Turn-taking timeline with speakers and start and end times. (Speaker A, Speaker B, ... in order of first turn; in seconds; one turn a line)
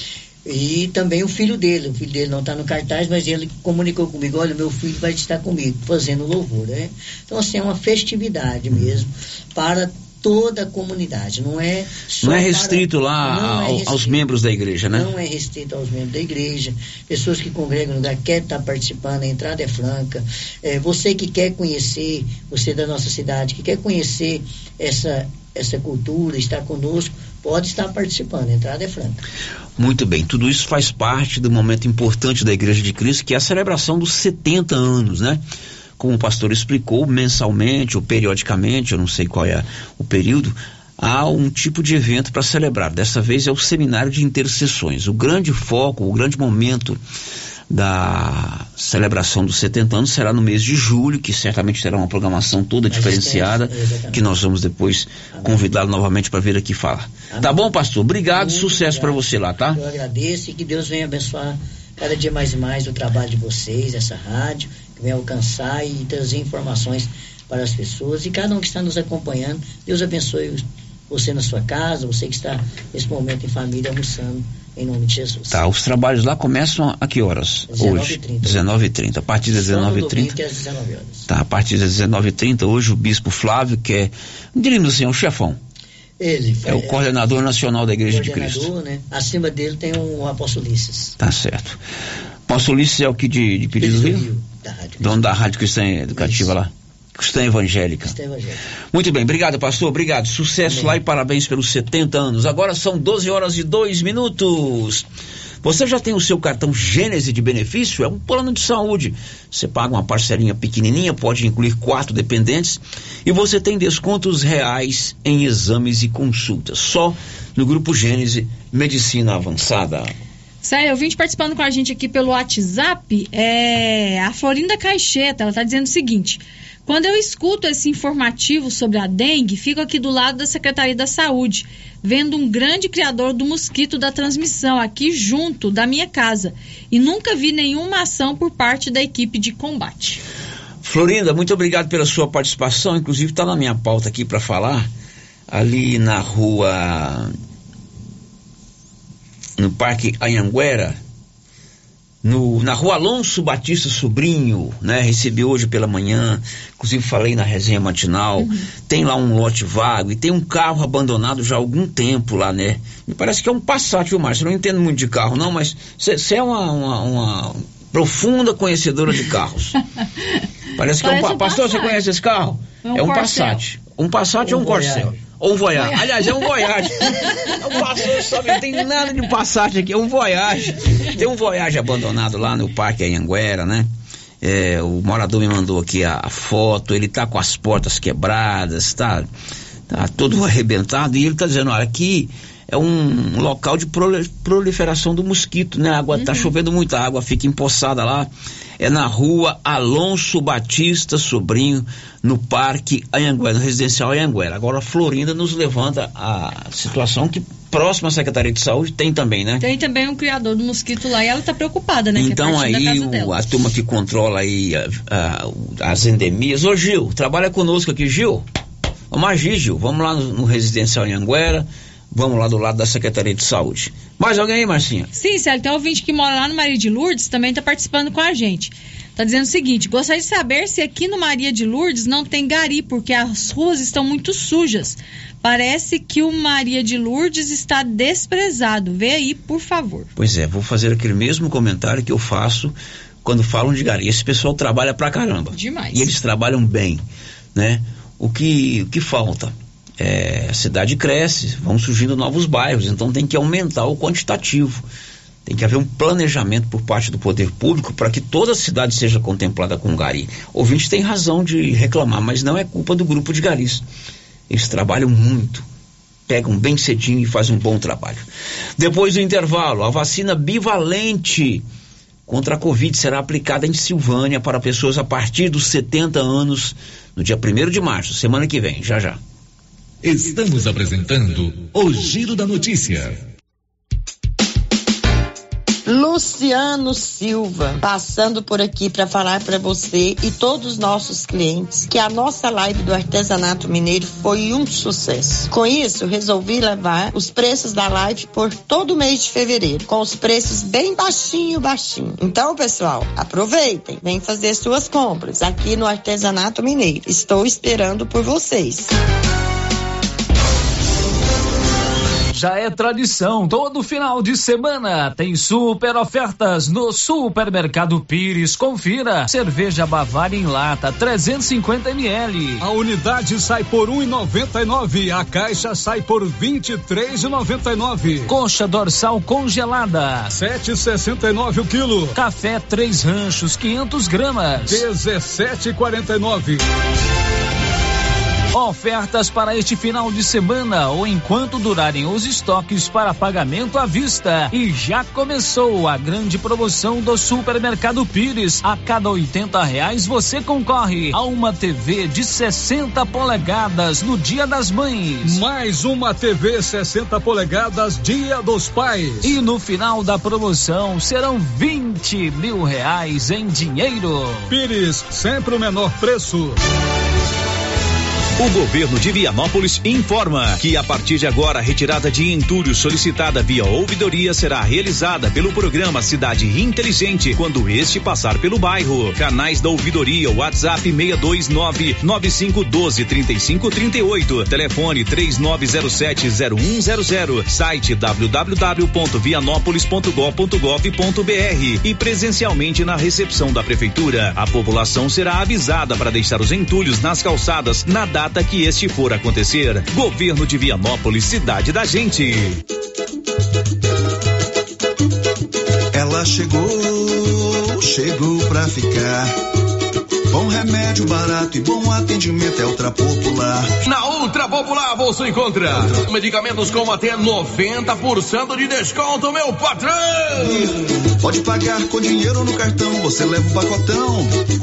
Speaker A: 0.5-14.2
Speaker B: 12.2-15.1
Speaker A: 14.9-29.2
Speaker B: 29.8-35.4
Speaker B: 36.0-47.0
Speaker B: 47.7-59.8
Speaker A: 52.9-54.2
Speaker A: 57.3-57.6
Speaker A: 58.3-59.2
Speaker A: 59.7-75.6
Speaker B: 75.5-80.3
Speaker A: 77.7-78.7
Speaker A: 79.5-81.3
Speaker B: 81.3-85.6
Speaker A: 86.2-87.0
Speaker B: 86.6-88.7
Speaker A: 88.1-91.2
Speaker B: 91.2-91.8
Speaker B: 92.5-94.2
Speaker A: 93.8-95.2
Speaker B: 95.0-98.1
Speaker A: 96.1-96.5
Speaker A: 98.0-98.6
Speaker B: 98.9-105.0
Speaker A: 100.7-101.0
Speaker B: 105.6-120.1
Speaker C: 120.6-140.2
Speaker B: 140.8-144.9
Speaker B: 145.5-147.3
Speaker B: 149.6-151.0
Speaker B: 152.2-169.8
Speaker C: 158.4-158.6
Speaker B: 170.8-183.9
Speaker C: 171.0-172.0
Speaker C: 172.8-173.6
Speaker A: 174.4-175.2
Speaker B: 184.4-189.3
Speaker B: 189.9-198.3
Speaker C: 196.1-196.5
Speaker B: 198.8-209.7
Speaker C: 209.6-213.3
Speaker B: 212.1-218.4
Speaker B: 219.1-225.1
Speaker C: 225.1-240.1
Speaker B: 240.2-247.0
Speaker C: 245.5-246.1
Speaker B: 247.5-254.8
Speaker B: 255.4-263.8
Speaker B: 264.5-265.6
Speaker B: 266.3-268.2
Speaker B: 268.8-271.6
Speaker B: 272.3-279.2
Speaker D: 280.0-283.1
Speaker E: 285.9-308.9
Speaker F: 312.3-322.6
Speaker G: 322.6-328.3
Speaker F: 328.2-330.3
Speaker G: 330.3-332.1
Speaker F: 332.1-334.9
Speaker G: 334.6-336.6
Speaker F: 338.5-355.4
Speaker G: 355.2-359.4
Speaker F: 359.2-364.5
Speaker G: 364.5-366.6
Speaker H: 368.4-402.6
Speaker I: 405.9-409.3
Speaker I: 410.3-413.7
Speaker J: 413.8-420.6
Speaker I: 420.4-424.3